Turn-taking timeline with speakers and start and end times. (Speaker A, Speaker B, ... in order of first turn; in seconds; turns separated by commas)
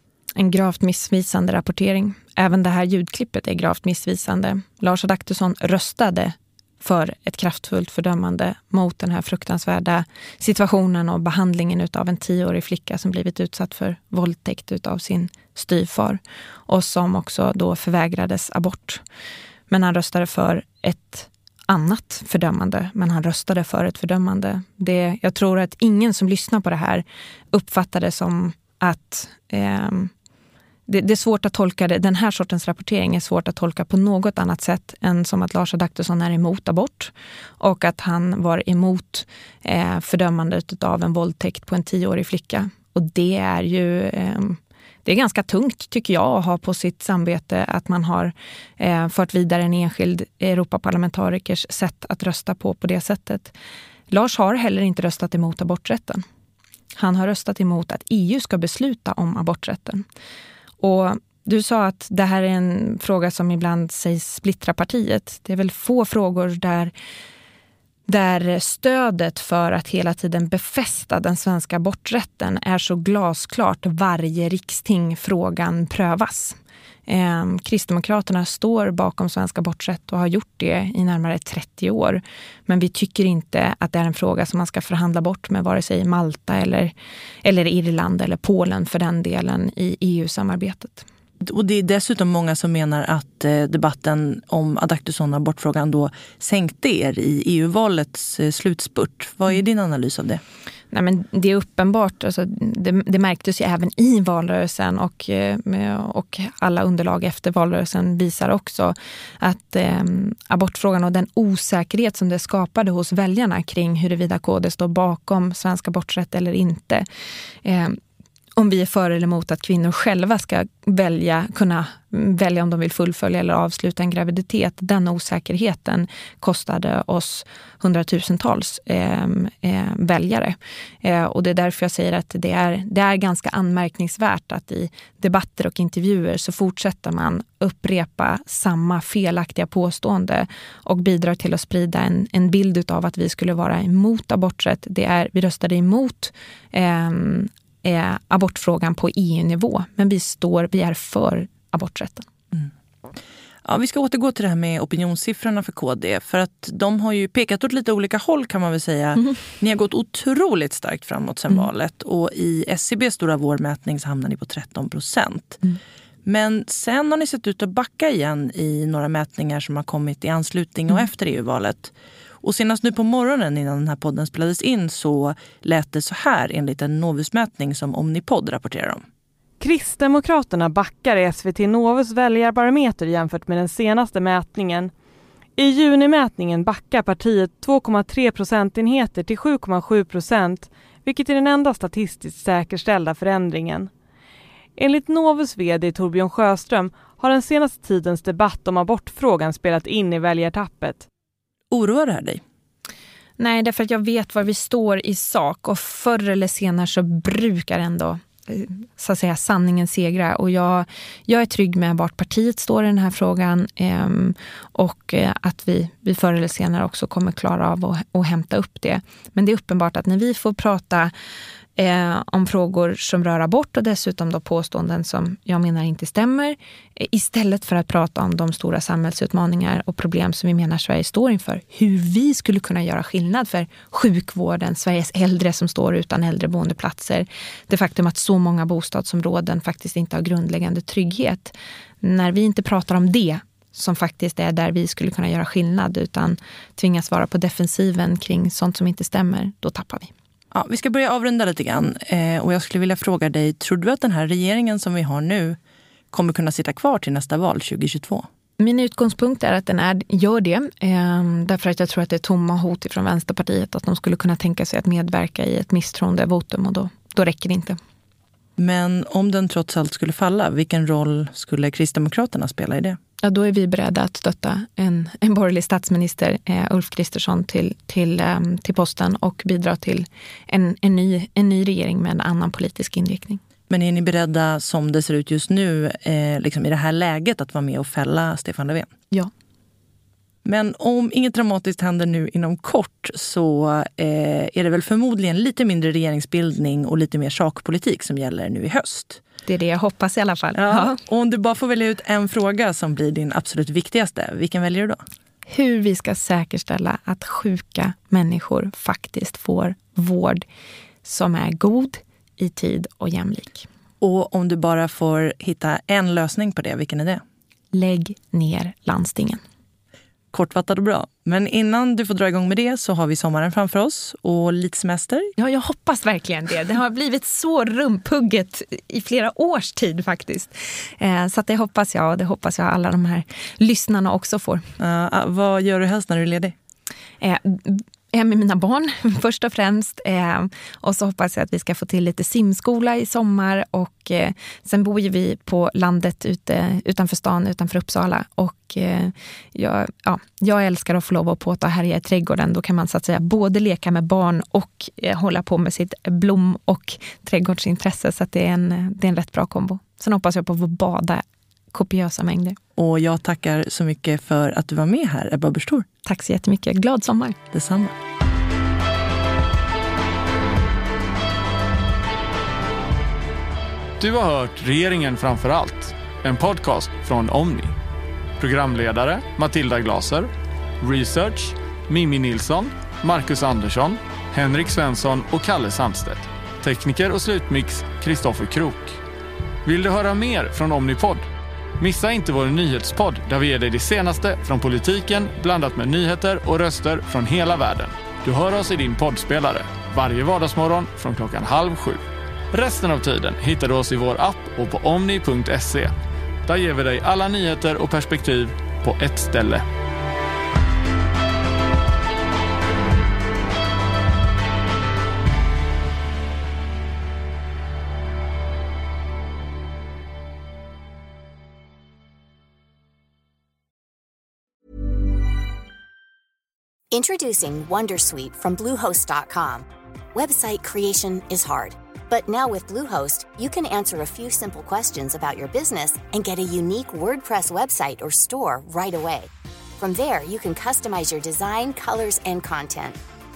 Speaker A: 0.4-19.0, Speaker A: 19.7-30.1, Speaker A: 30.9-53.5, Speaker A: 54.1-56.2, Speaker A: 57.0-60.0, Speaker A: 60.8-66.9, Speaker A: 68.1-86.9, Speaker A: 87.4-91.1, Speaker B: 91.4-100.4, Speaker A: 100.9-117.1, Speaker A: 117.6-118.0, Speaker A: 118.6-152.3, Speaker B: 153.7-165.7, Speaker B: 166.2-179.0, Speaker C: 179.6-184.9, Speaker C: 185.6-193.9, Speaker C: 194.8-201.1, Speaker B: 201.7-202.4, Speaker A: 203.4-221.1, Speaker A: 221.8-250.1, Speaker B: 250.5-255.6, Speaker B: 256.1-258.3, Speaker A: 258.6-267.8, Speaker B: 268.6-273.0, Speaker A: 273.2-283.4, Speaker B: 283.7-288.9, Speaker B: 290.4-299.2, Speaker A: 299.5-301.0, Speaker B: 300.6-305.0, Speaker A: 305.5-310.4, Speaker A: 311.0-313.7, Speaker B: 314.0-317.2, Speaker A: 317.7-319.4, Speaker B: 320.3-325.3, Speaker A: 325.4-334.6, Speaker B: 334.8-336.6, Speaker A: 337.2-362.6, Speaker B: 362.8-365.9, Speaker A: 366.1-367.4, Speaker B: 367.5-367.9, Speaker D: 374.0-377.8, Speaker D: 378.4-380.3, Speaker D: 380.8-389.0, Speaker D: 389.6-391.3, Speaker D: 391.8-405.9, Speaker D: 406.4-409.6, Speaker E: 426.9-443.0